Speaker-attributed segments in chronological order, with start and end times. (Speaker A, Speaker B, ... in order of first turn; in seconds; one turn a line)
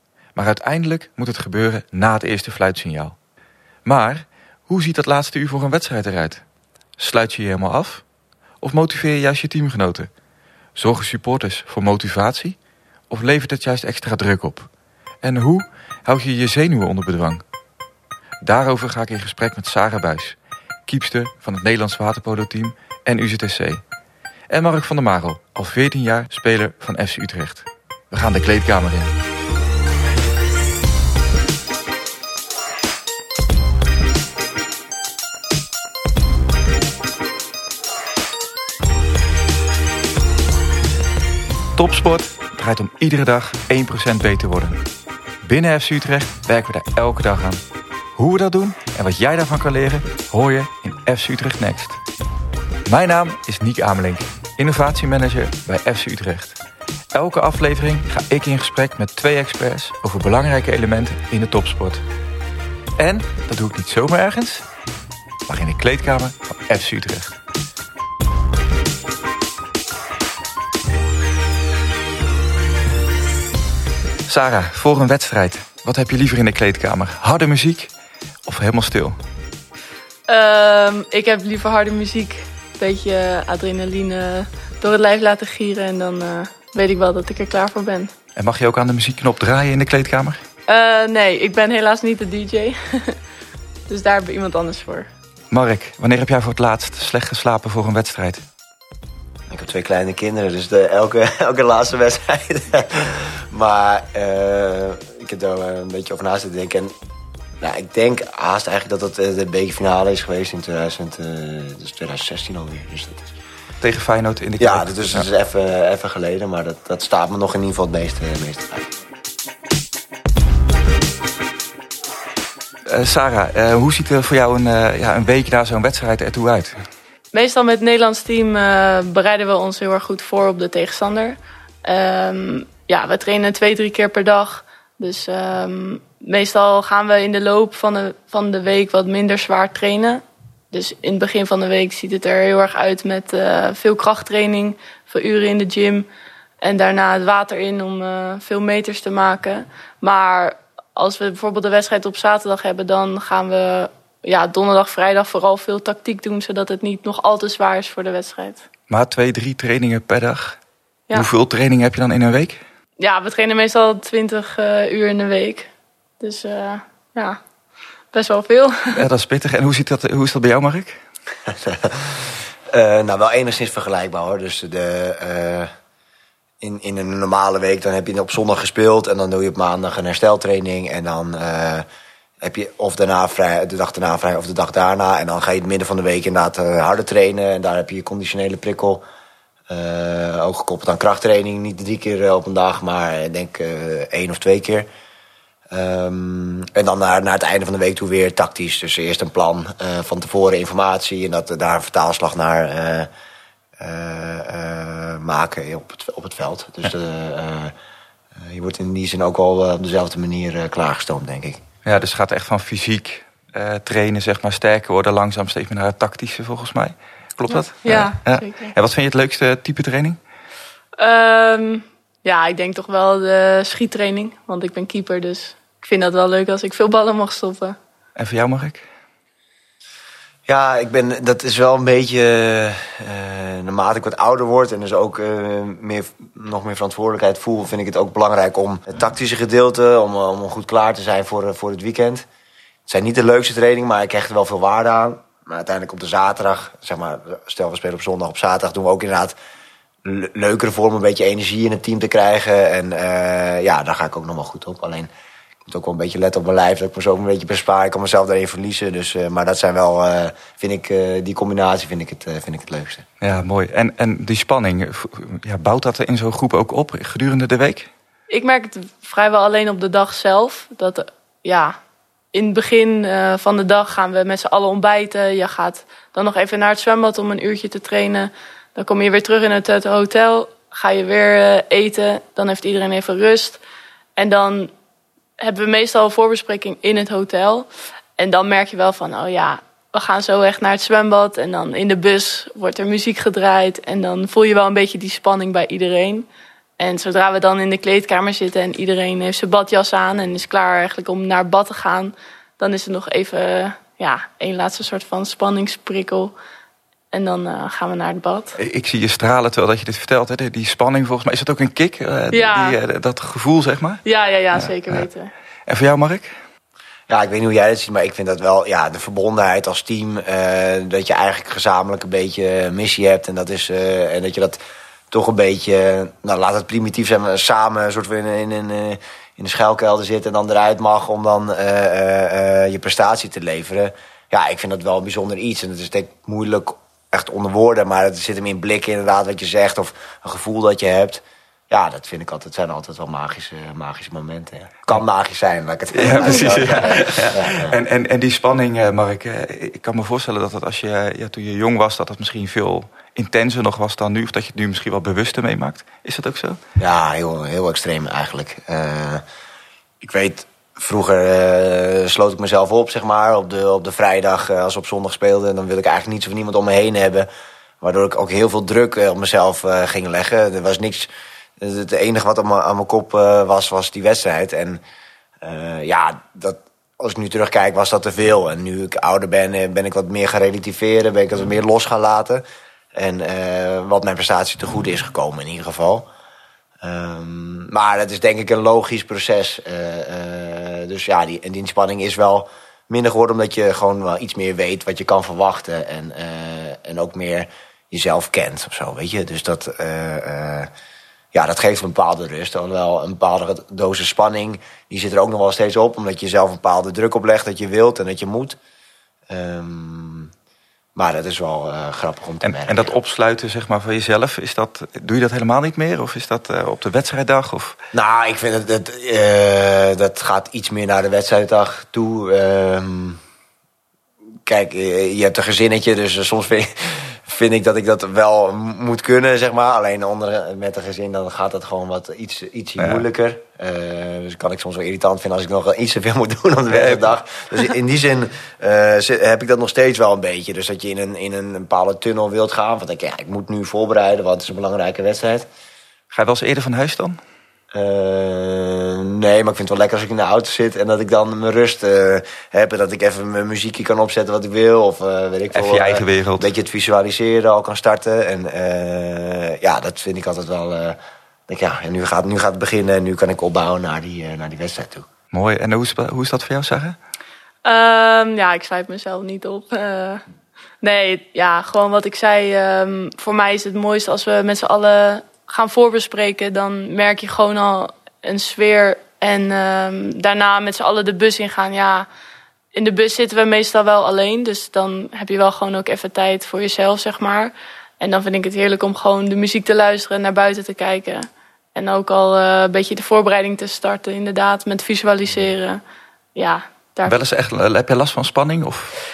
Speaker A: 0.3-3.2
Speaker A: 3.9-6.4
Speaker A: 7.0-8.1
Speaker A: 8.6-10.1
Speaker A: 10.8-12.6
Speaker A: 13.1-14.7
Speaker A: 15.2-17.4
Speaker A: 18.4-23.9
Speaker A: 24.5-29.1
Speaker A: 41.8-44.8
Speaker A: 45.4-47.6
Speaker A: 48.2-52.0
Speaker A: 52.9-56.6
Speaker A: 57.1-62.0
Speaker A: 63.0-64.7
Speaker A: 65.5-67.4
Speaker A: 74.3-77.9
Speaker A: 78.5-79.2
Speaker B: 80.3-88.1
Speaker A: 88.4-90.4
Speaker B: 90.7-93.2
Speaker B: 93.9-95.1
Speaker A: 95.5-98.4
Speaker C: 99.5-106.9
Speaker C: 107.6-113.3
Speaker A: 113.8-115.3
Speaker C: 114.6-118.9
Speaker A: 122.9-126.9
Speaker B: 127.3-146.1
Speaker B: 146.6-158.7
Speaker A: 158.9-160.6
Speaker A: 161.1-162.6
Speaker B: 163.0-165.7
Speaker B: 166.2-167.4
Speaker B: 168.1-169.0
Speaker A: 168.9-171.0
Speaker C: 171.5-175.7
Speaker C: 176.6-181.8
Speaker C: 182.4-189.0
Speaker C: 189.7-194.9
Speaker C: 195.7-203.1
Speaker C: 203.8-207.7
Speaker C: 208.3-211.6
Speaker A: 211.8-220.2
Speaker B: 217.5-218.7
Speaker B: 221.0-227.8
Speaker A: 228.2-228.9
Speaker C: 230.5-242.3
Speaker C: 242.9-249.3
Speaker C: 250.0-255.1
Speaker C: 255.7-263.0
Speaker A: 263.2-267.9
Speaker B: 268.3-271.8
Speaker B: 272.3-283.6
Speaker B: 284.2-284.7
Speaker B: 285.4-287.7
Speaker B: 288.2-296.3
Speaker B: 296.8-306.3
Speaker B: 307.1-308.6
Speaker A: 308.6-315.1
Speaker B: 312.3-312.8
Speaker B: 314.1-315.3
Speaker A: 315.7-316.3
Speaker C: 317.1-324.6
Speaker C: 325.1-347.8
Speaker A: 345.9-356.6
Speaker B: 346.1-346.4
Speaker C: 356.8-359.2
Speaker C: 360.0-367.3
Speaker C: 367.8-374.8
Speaker C: 375.4-382.4
Speaker C: 382.9-386.1
Speaker C: 386.8-400.7
Speaker C: 401.3-408.6
Speaker C: 409.3-410.3
Speaker C: 410.9-412.9
Speaker A: 412.4-417.8
Speaker C: 417.9-423.2
Speaker C: 424.4-445.5
Speaker A: 432.8-433.0
Speaker A: 436.7-437.7
Speaker A: 446.1-447.2
Speaker C: 447.7-461.0
Speaker A: 455.5-456.5
Speaker C: 461.5-465.1
Speaker A: 465.3-467.0
Speaker B: 467.6-470.2
Speaker B: 470.8-482.1
Speaker B: 482.7-495.8
Speaker B: 496.4-497.2
Speaker A: 497.1-498.9